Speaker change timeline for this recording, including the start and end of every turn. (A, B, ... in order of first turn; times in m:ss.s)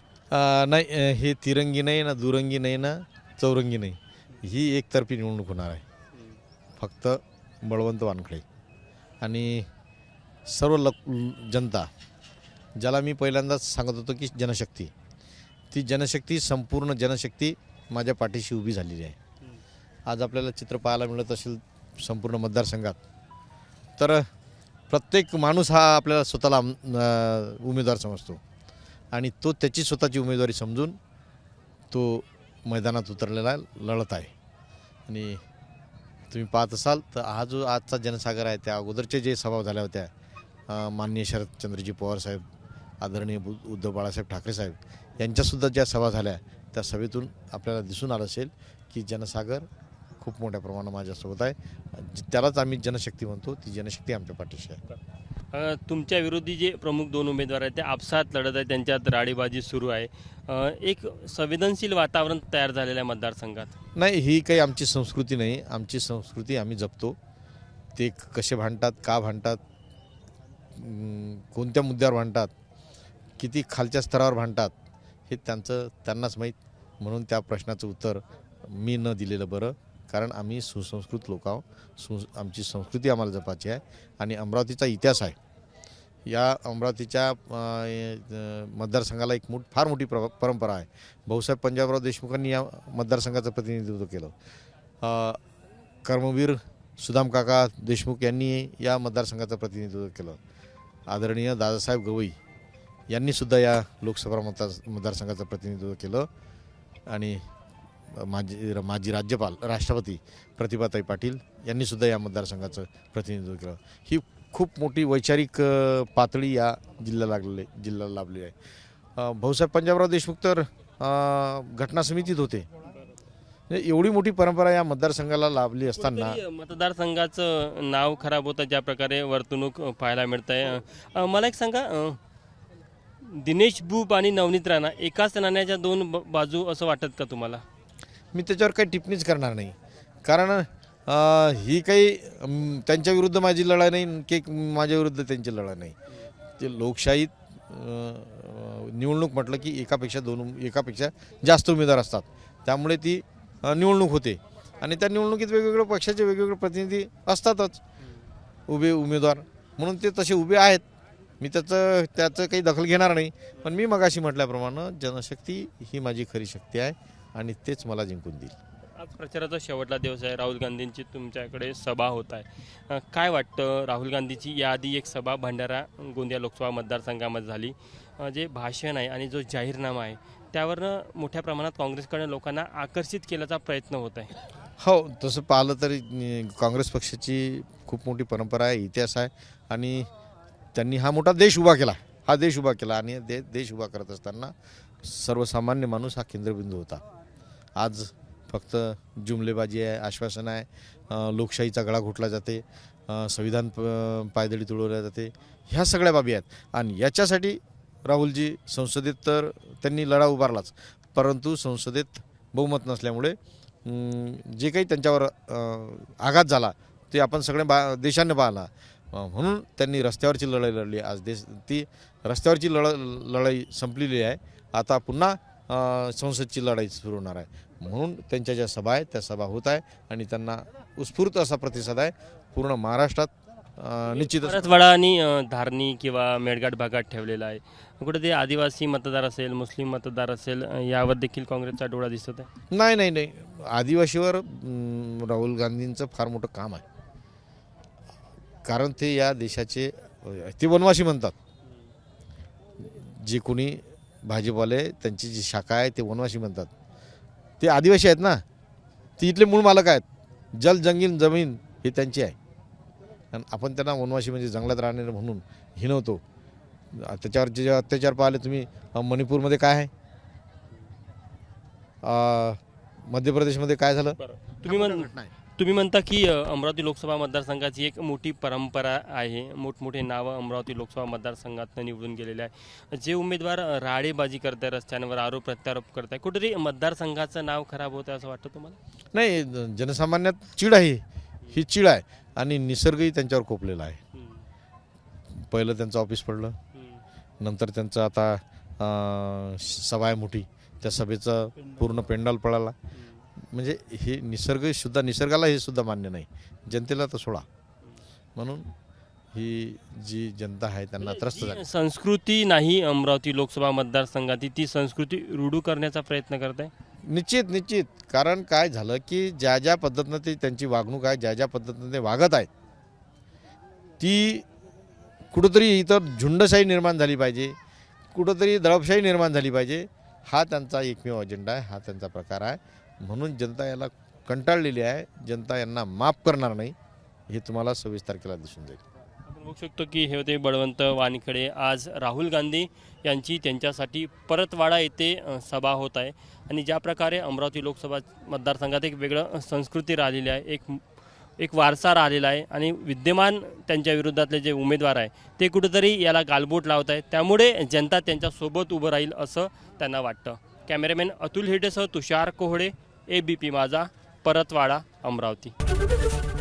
0:00.3-0:05.8 A
0:06.8-0:08.4 A
0:09.2-0:09.7 A
0:10.5-0:11.9 A
0:12.8-0:14.9 A
0:15.7-0:19.2 A
0:20.1-0:23.0 A
0:24.0-0:24.2 A
0:24.9-0:28.4 A
0:29.1-0:31.0 A
0:31.9-0:34.3 A
0:35.1-0:35.4 A
0:36.3-0:40.1 A
0:40.7-0:42.4 A
0:43.0-0:49.6 A
0:50.2-0:54.8 A
0:55.5-1:03.7 B
1:04.0-1:07.2 A
1:07.9-1:09.6 A
1:10.7-1:12.5 A
1:13.4-1:14.7 A
1:15.3-1:25.4 A
1:26.3-1:34.3 A
1:35.0-1:35.4 A
1:36.0-1:40.4 A
1:41.1-1:42.4 A
1:43.1-1:46.3 A
1:47.1-1:47.4 A
1:48.1-1:58.5 A
1:59.2-2:02.7 A
2:03.7-2:06.4 A
2:05.8-2:12.2 B
2:13.2-2:17.6 B
2:18.3-2:26.0 A
2:26.6-2:37.8 A
2:38.7-2:40.8 A
2:41.4-2:48.5 A
2:48.9-3:04.3 B
3:04.8-3:10.1 A
3:10.7-3:17.0 A
3:17.8-3:54.7 A
3:54.2-4:02.5 B
4:02.7-4:06.8 A
4:08.6-4:11.3 A
4:12.8-4:16.7 A
4:17.6-4:18.4 A
4:19.2-4:22.4 A
4:23.3-4:26.2 A
4:26.9-4:29.9 A
4:32.0-4:35.3 A
4:34.2-4:48.8 B
4:49.1-4:54.0 A
4:54.1-4:54.4 B
4:55.3-4:56.6 A
4:56.7-4:57.0 B
4:57.4-5:02.7 A
5:02.9-5:03.2 B
5:03.5-5:07.4 A
5:08.4-5:08.7 A
5:09.3-5:11.6 A
5:11.0-5:16.7 B
5:17.0-5:22.5 A
5:24.0-5:24.4 A
5:25.3-5:27.6 A
5:28.1-5:36.7 A
5:37.3-5:38.8 A
5:39.2-5:50.8 B
5:51.4-6:05.5 B